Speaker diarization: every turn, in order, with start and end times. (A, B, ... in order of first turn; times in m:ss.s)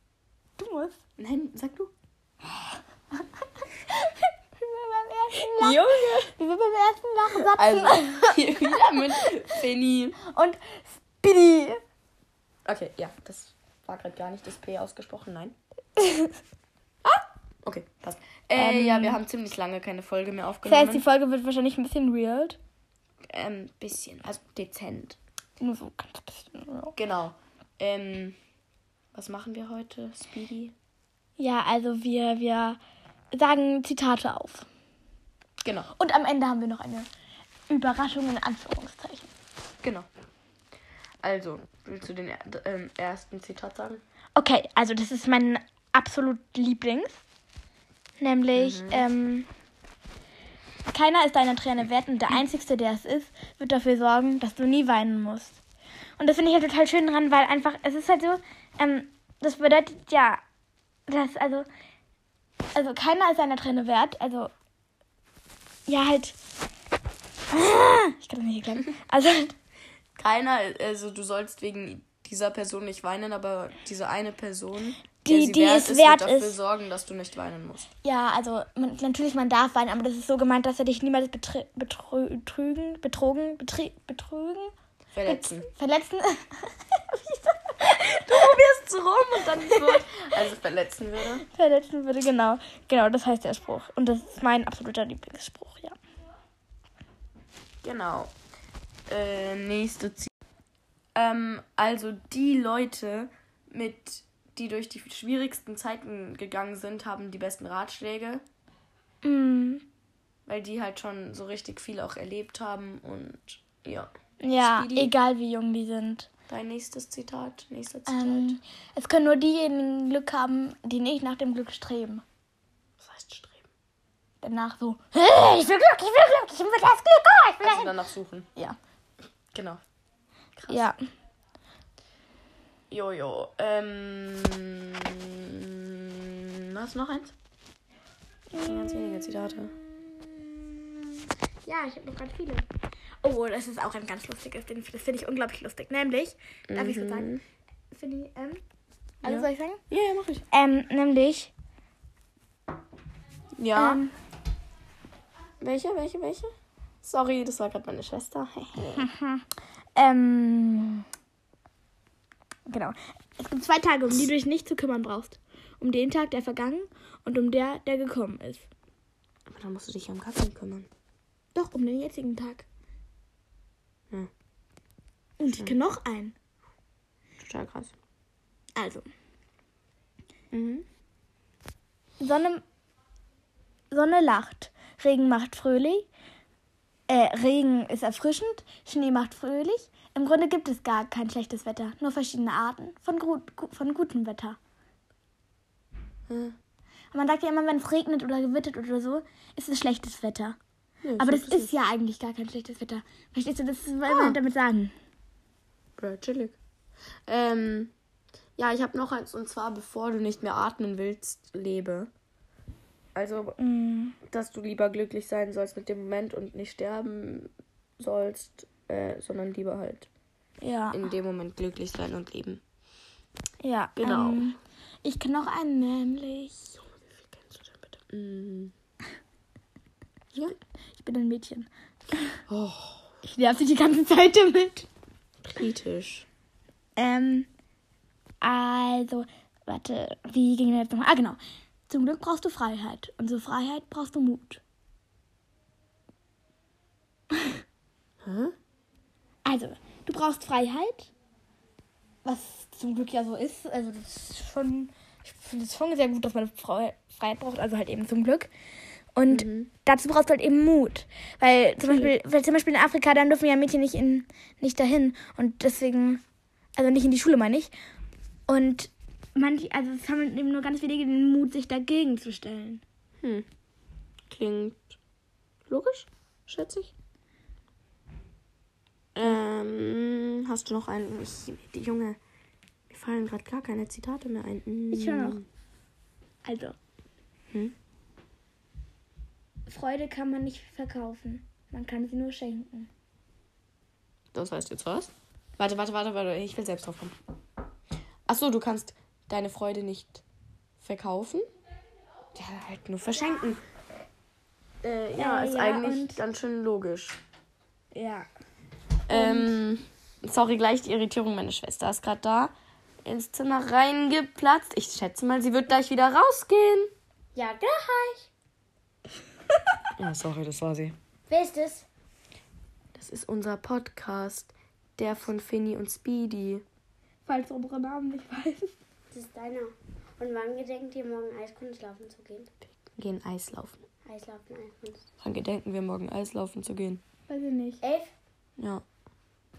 0:00.6-0:01.0 A
0:01.2-0:01.9 B
0:03.6-0:09.3 A
0:05.4-0:06.3 B
0:07.5-0:10.2 B
0:10.3-0:11.8 A
0:12.7-0:15.6 B
0:16.0-0:16.4 A
0:17.1-0:21.0 B
0:18.6-0:19.2 A
0:20.7-0:22.6 A
0:23.3-0:25.2 B
0:25.6-0:27.0 A
0:27.0-0:28.4 B
0:29.1-0:30.7 B
0:31.4-0:32.8 A
0:33.3-0:34.7 A
0:35.6-0:35.9 B
0:35.9-0:37.1 A
0:37.7-0:39.3 A
0:39.8-0:40.1 B
0:41.2-0:44.0 B
0:44.4-0:47.2 A
0:48.2-0:49.5 A
0:48.6-0:49.1 B
0:50.9-0:55.6 A
0:56.2-1:00.4 A
1:01.1-1:01.7 A
1:02.8-1:04.5 A
1:05.9-1:06.4 A
1:07.5-1:09.6 A
1:10.2-1:17.9 B
1:15.2-1:16.6 A
1:18.0-1:24.7 A
1:25.2-1:25.7 B
1:25.2-1:28.6 A
1:28.3-1:31.4 B
1:29.6-1:30.0 A
1:31.4-1:36.0 A
1:37.8-1:38.3 B
1:39.1-1:40.3 B
1:41.2-1:48.4 B
1:49.2-1:49.8 A
1:50.5-1:55.1 B
1:54.4-1:56.3 A
1:56.5-1:58.6 B
1:58.1-2:02.2 A
2:03.0-2:03.7 B
2:04.4-2:08.0 A
2:07.6-2:08.5 B
2:09.5-2:09.8 B
2:10.6-2:10.9 B
2:10.7-2:11.0 A
2:12.9-2:17.3 B
2:18.5-2:22.7 A
2:18.6-2:19.7 B
2:23.2-2:28.6 A
2:26.7-2:27.4 B
2:29.2-2:29.8 A
2:29.2-2:30.4 B
2:30.5-2:31.5 A
2:33.6-2:34.0 B
2:33.7-2:34.1 A
2:35.6-2:39.1 B
2:39.0-2:39.4 A
2:40.0-2:41.0 A
2:42.7-2:48.7 A
2:49.5-2:50.9 B
2:51.6-2:52.7 A
2:55.4-2:56.4 A
2:57.4-2:57.9 B
2:58.8-2:59.1 A
3:00.5-3:00.9 B
3:02.2-3:02.6 A
3:03.9-3:06.1 A
3:07.1-3:14.6 A
3:16.3-3:16.6 B
3:17.1-3:20.6 A
3:21.0-3:21.7 B
3:21.2-3:24.9 A
3:24.1-3:24.4 B
3:26.0-3:26.6 B
3:27.3-3:27.9 B
3:28.6-3:32.1 B
3:33.2-3:33.6 B
3:33.6-3:34.2 A
3:34.3-3:40.1 B
3:40.6-3:41.0 A
3:40.9-3:42.6 B
3:43.6-3:46.8 A
3:44.0-3:44.6 B
3:47.0-3:48.7 B
3:51.0-3:52.4 A
3:52.5-3:53.1 B
3:53.2-3:54.9 A
3:55.4-3:56.3 B
3:57.0-3:57.5 A
3:58.4-4:04.6 A
4:07.3-4:07.6 A
4:08.2-4:08.5 B
4:09.4-4:11.1 A
4:12.2-4:18.5 A
4:19.2-4:26.2 A
4:19.3-4:19.7 B
4:26.8-4:27.7 A
4:28.5-4:32.8 A
4:33.2-4:33.4 B
4:34.3-4:34.9 B
4:35.7-4:36.9 B
4:39.2-4:42.2 B
4:42.9-4:45.4 B
4:44.9-4:45.4 A
4:46.4-4:46.8 A
4:49.7-4:52.9 A
4:54.3-4:57.2 B
4:58.3-5:00.2 B
5:00.8-5:01.5 B
5:02.4-5:03.6 B
5:04.8-5:07.2 B
5:05.2-5:06.2 A
5:07.9-5:08.3 A
5:09.1-5:12.5 B
5:09.1-5:09.6 A
5:13.0-5:16.9 B
5:17.4-5:18.3 C
5:20.0-5:21.0 B
5:21.3-5:21.8 C
5:23.0-5:26.6 B
5:27.2-5:28.7 A
5:29.1-5:32.5 C
5:33.0-5:33.8 B
5:34.0-5:35.0 C
5:35.2-5:37.0 B
5:37.3-5:37.8 A
5:37.8-5:38.1 C
5:38.6-5:38.8 B